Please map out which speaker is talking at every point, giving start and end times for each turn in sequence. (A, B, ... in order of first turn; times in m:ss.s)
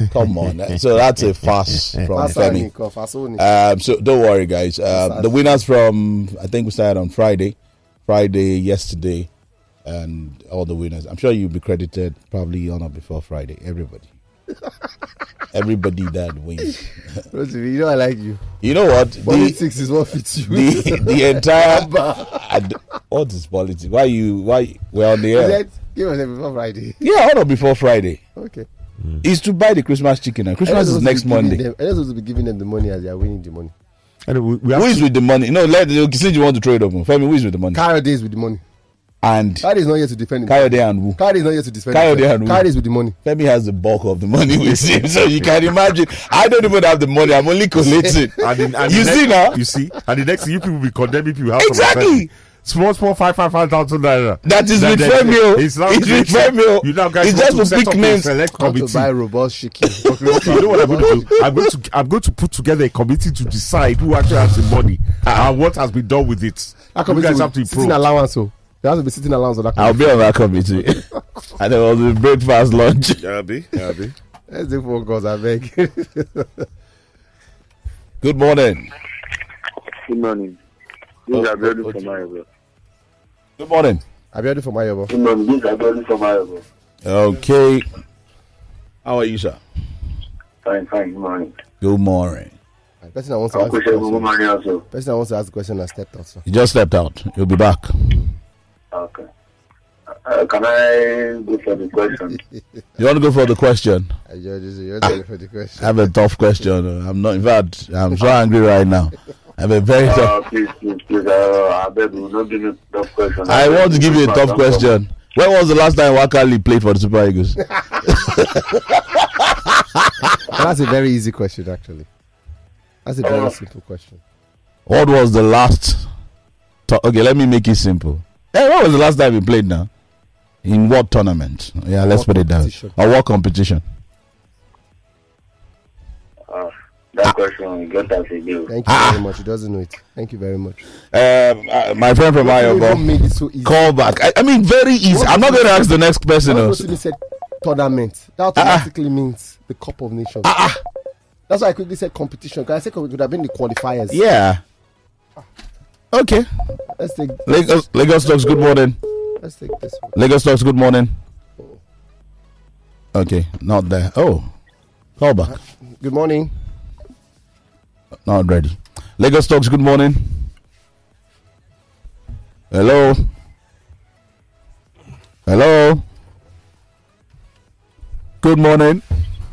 0:00.1-0:02.7 A
0:02.1-0:03.4 B
0:03.4-0:09.3 A
0:04.9-0:05.4 B
0:09.8-0:14.1 A
0:15.5-0:17.0 A
0:17.3-0:18.4 B
0:18.6-0:19.6 A
0:19.2-0:22.4 B
0:20.5-0:25.6 A
0:25.3-0:27.0 B
0:27.0-0:28.2 A
0:28.4-0:28.7 B
0:29.2-0:31.6 A
0:30.6-0:33.7 B
0:34.2-0:35.0 C
0:34.7-0:37.8 A
0:37.7-0:38.6 B
0:39.2-0:39.7 A
0:39.6-0:43.2 B
0:40.4-0:41.2 A
0:41.9-0:42.7 A
0:43.2-0:49.6 A
0:48.4-0:59.1 C
0:51.6-0:52.2 A
0:54.4-0:58.3 A
0:58.6-1:01.4 B
1:00.0-1:01.4 A
1:00.4-1:08.0 C
1:06.9-1:10.0 B
1:09.7-1:13.2 A
1:13.2-1:14.1 C
1:14.5-1:16.6 B
1:18.2-1:18.9 A
1:20.0-1:20.6 D
1:21.3-1:22.4 D
1:21.3-1:22.1 A
1:23.6-1:24.0 A
1:24.3-1:25.1 B
1:25.1-1:26.6 D
1:27.0-1:27.8 A
1:29.0-1:29.6 A
1:30.6-1:31.6 D
1:31.8-1:32.5 A
1:33.1-1:34.3 B
1:33.5-1:34.8 D
1:34.9-1:36.4 B
1:36.4-1:38.2 A
1:38.9-1:39.2 D
1:40.2-1:42.4 D
1:43.0-1:44.1 A
1:44.3-1:45.9 B
1:45.8-1:50.4 A
1:50.0-1:54.9 D
1:53.4-2:00.4 A
2:00.5-2:02.1 B
2:03.0-2:04.2 B
2:03.2-2:03.5 D
2:04.9-2:06.0 A
2:06.9-2:09.9 A
2:10.6-2:13.8 A
2:12.0-2:13.0 B
2:16.5-2:18.7 D
2:18.7-2:20.8 B
2:18.9-2:19.2 A
2:21.1-2:23.1 A
2:22.4-2:23.9 B
2:23.6-2:26.9 A
2:25.1-2:25.9 B
2:26.4-2:30.7 B
2:28.5-2:28.9 A
2:30.4-2:30.8 A
2:31.5-2:34.2 B
2:34.1-2:34.6 A
2:36.1-2:36.5 A
2:37.0-2:37.4 B
2:37.4-2:39.0 A
2:39.4-2:40.2 B
2:40.1-2:41.1 A
2:43.1-2:44.5 A
2:45.2-2:45.6 A
2:45.5-2:46.5 B
2:48.2-2:50.5 A
2:52.7-2:53.2 A
2:55.4-2:56.0 A
2:58.4-2:59.0 A